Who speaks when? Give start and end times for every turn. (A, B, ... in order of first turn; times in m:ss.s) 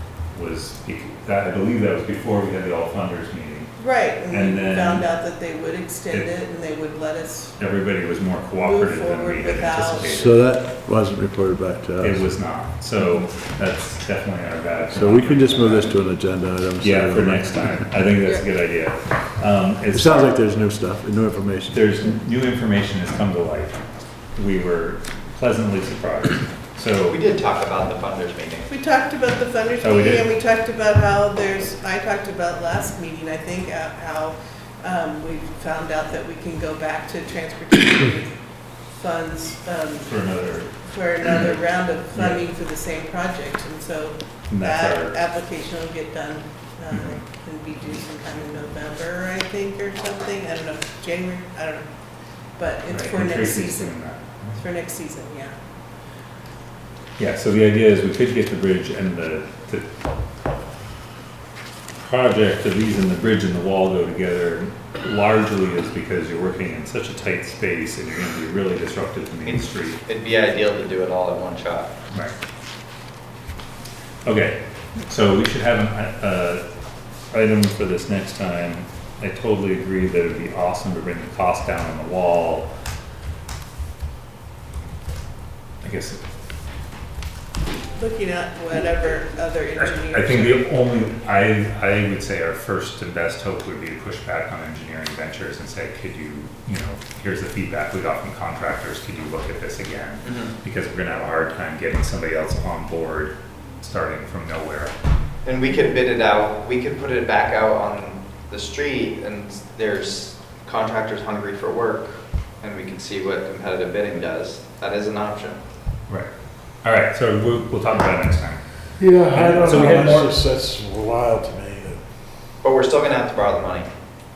0:00.3-0:03.7 A
0:03.8-0:07.6 B
0:04.3-0:05.1 A
0:07.6-0:10.4 A
0:08.6-0:10.3 B
0:10.0-0:12.3 C
0:12.0-0:16.0 A
0:14.9-0:17.8 C
0:16.8-0:20.3 A
0:19.9-0:21.8 C
0:21.7-0:23.8 A
0:24.4-0:27.2 A
0:27.1-0:28.7 D
0:28.7-0:38.3 B
0:29.8-0:30.3 A
0:38.9-0:40.2 B
0:40.0-0:42.4 A
0:40.8-0:51.9 B
0:44.5-0:45.2 A
0:46.9-0:47.2 A
0:52.6-0:54.0 B
0:52.9-0:54.6 A
0:54.6-0:55.5 B
0:57.2-0:59.8 A
1:02.0-1:10.0 A
1:09.5-1:11.9 D
1:14.2-1:16.6 A
1:17.3-1:22.7 A
1:25.8-1:26.2 A
1:28.0-1:30.6 B
1:29.8-1:44.9 A
1:40.2-1:40.5 D
1:45.4-1:55.6 D
1:56.8-1:58.6 A
1:59.0-2:02.0 C
1:59.3-2:00.3 A
2:02.6-2:03.9 D